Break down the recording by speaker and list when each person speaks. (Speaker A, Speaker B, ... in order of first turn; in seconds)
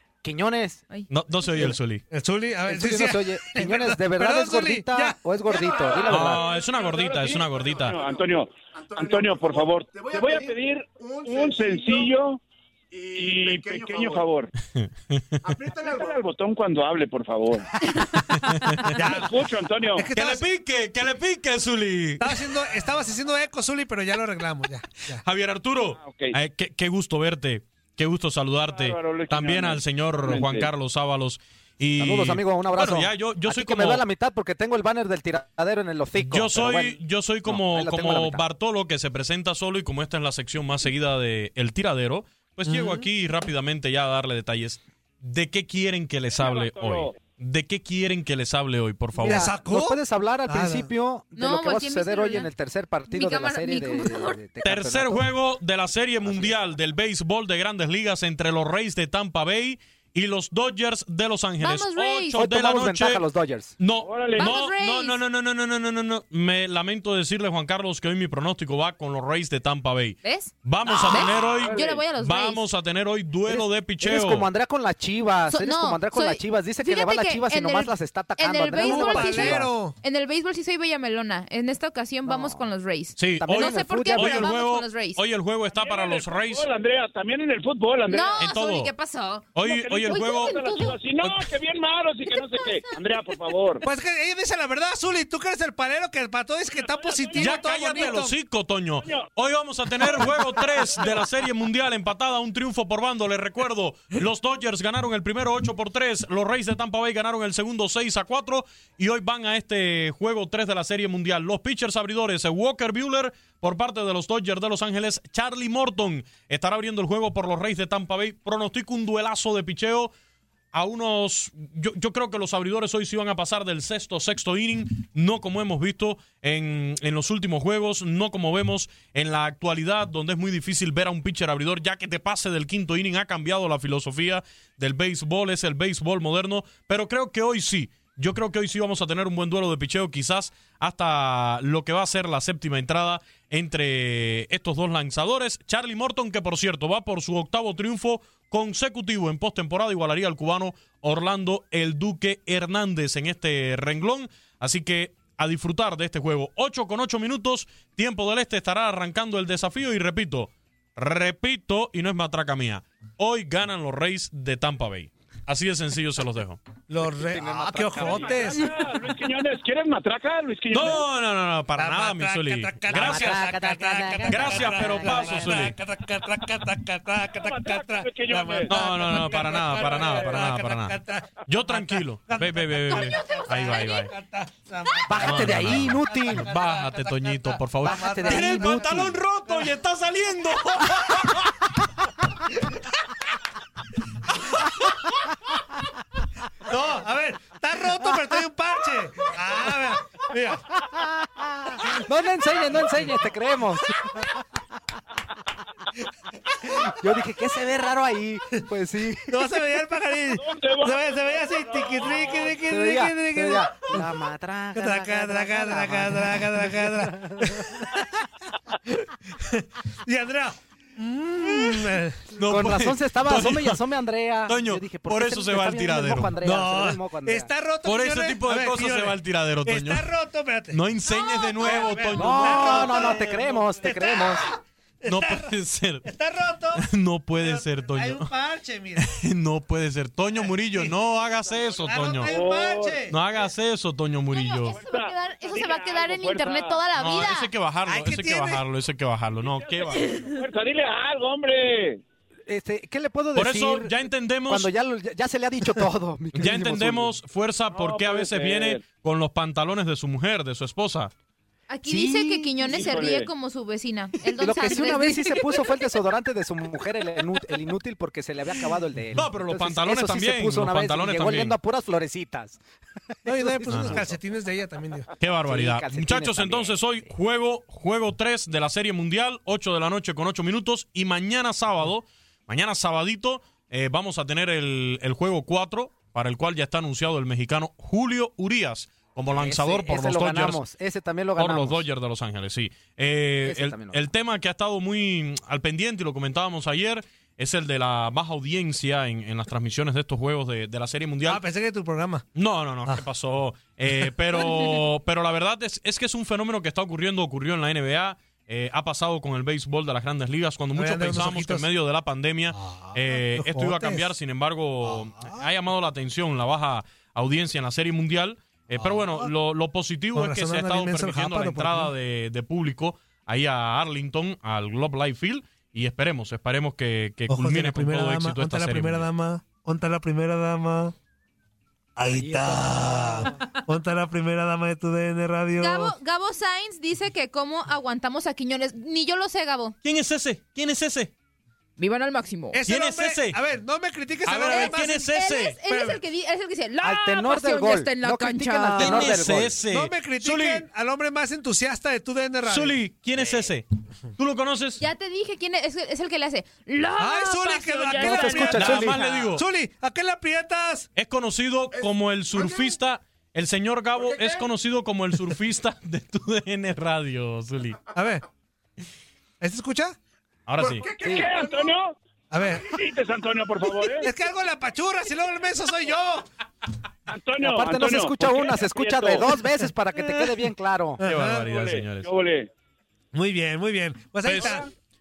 Speaker A: 0.2-0.8, 2.6-6.4, 32.0-38.4, 49.2-55.3, 56.2-56.5, 62.3-63.8, 73.5-79.7, 82.2-82.7, 83.3-84.5, 167.0-168.6, 172.9-175.7, 185.1-186.5, 187.8-189.2, 200.8-204.2, 206.6-209.4, 212.7-217.9, 222.4-227.5, 232.1-234.4, 252.5-257.1, 261.8-262.6, 264.3-272.6, 273.3-274.1, 275.4-276.8, 289.4-291.9, 293.4-294.1, 332.1-333.3, 346.8-349.6, 358.4-359.0, 371.0-371.4, 377.4-381.0
Speaker B: 1.1-2.0, 6.0-8.0, 14.8-15.5, 18.5-19.0, 20.1-22.4, 25.2-34.0, 36.2-49.5, 54.6-63.2, 63.8-74.5, 83.2-86.7, 88.4-88.9, 89.5-90.6, 97.3-120.1, 120.7-166.6, 170.7-173.4, 174.3-175.8, 178.7-184.1, 185.2-191.3, 222.4-223.8, 224.4-226.3, 227.8-230.1, 230.7-233.1, 235.1-236.1, 236.8-238.3, 239.0-242.3, 243.1-244.8, 246.9-250.1, 253.3-254.7, 256.3-261.1, 269.1-271.6, 273.7-274.0, 275.2-290.6, 291.4-301.4, 302.3-329.1, 339.8-341.1, 342.7-343.4, 344.2-345.6, 348.8-350.6, 352.4-353.6, 354.2-354.8, 358.0-359.4, 360.9-367.9, 370.5-370.9, 381.0-382.1, 384.2-384.6
Speaker C: 2.1-5.2, 18.9-19.3, 19.9-20.4, 22.2-25.2, 42.6-43.0, 49.1-50.9, 78.8-80.0, 93.8-98.3, 166.9-168.7, 171.8-189.7, 192.5-192.8, 194.5-195.1, 196.6-200.8, 202.7-203.3, 206.5-206.8, 209.3-214.1, 214.7-218.2, 218.9-222.4, 226.4-230.8, 231.6-235.5, 236.0-239.1, 240.3-240.9, 241.9-243.1, 247.8-248.6, 273.2-275.1, 301.2-302.2, 310.7-311.7, 312.5-314.1, 314.8-315.5, 318.7-319.3, 320.1-321.9, 327.3-330.9, 331.9-335.9, 342.5-345.1, 345.6-346.0, 349.7-352.8, 357.0-360.9, 367.9-368.2, 369.4-370.0, 372.3-372.8, 374.0-376.3, 380.0-380.4, 381.0-381.4, 383.1-384.7
Speaker D: 5.9-12.4, 13.0-14.5, 15.6-17.7, 19.0-20.1, 25.9-26.3, 28.7-30.7, 46.3-47.2, 64.0-64.5, 70.8-72.0, 85.7-88.4, 89.6-93.8, 96.8-98.1, 99.0-99.3, 100.8-101.2, 168.0-171.0, 177.3-178.8, 180.0-180.4, 210.3-212.6, 242.2-243.0, 244.7-246.8, 249.4-252.0, 257.7-258.8, 262.6-263.3, 370.8-371.9, 372.5-374.1, 377.1-379.3, 381.4-382.5, 384.2-384.7
Speaker E: 51.4-52.5, 53.1-54.4, 61.6-62.4, 64.4-65.2, 70.2-70.5, 71.0-72.6, 75.5-85.2, 88.1-91.0, 92.3-92.9, 231.1-231.9, 244.3-247.5, 249.9-250.3, 261.7-265.9, 335.6-339.8, 341.8-342.6, 344.4-349.1, 354.8-358.7